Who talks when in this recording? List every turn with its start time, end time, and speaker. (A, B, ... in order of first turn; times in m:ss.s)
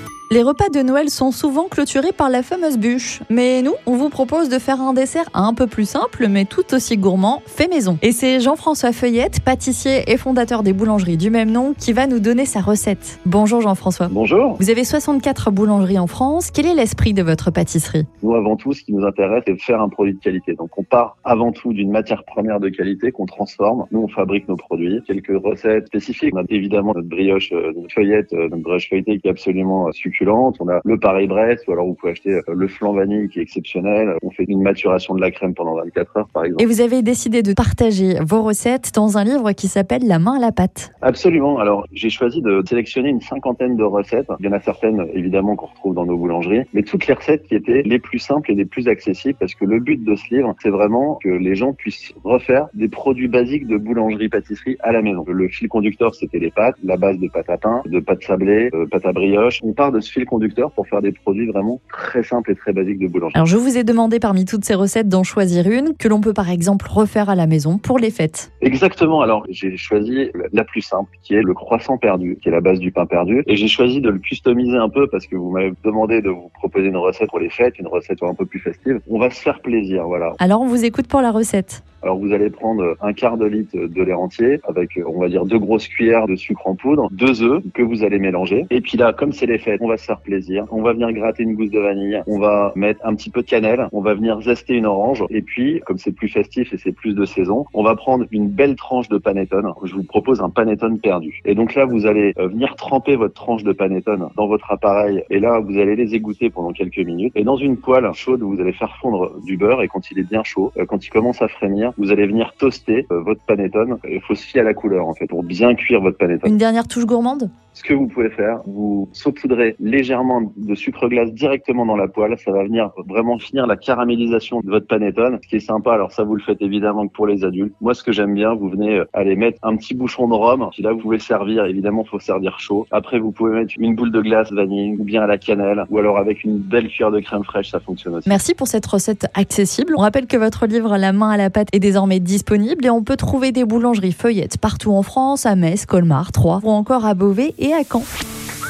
0:00.3-0:18.1 A
0:14.1-0:14.6 B
0:18.2-0:36.7 B
0:36.6-0:40.9 A
0:41.0-1:03.4 B
1:03.4-1:08.5 A
1:08.6-1:20.4 B
1:20.4-1:21.8 A
1:22.0-1:56.5 B
1:56.4-1:57.5 A
1:57.7-2:18.4 B
2:18.3-2:28.1 A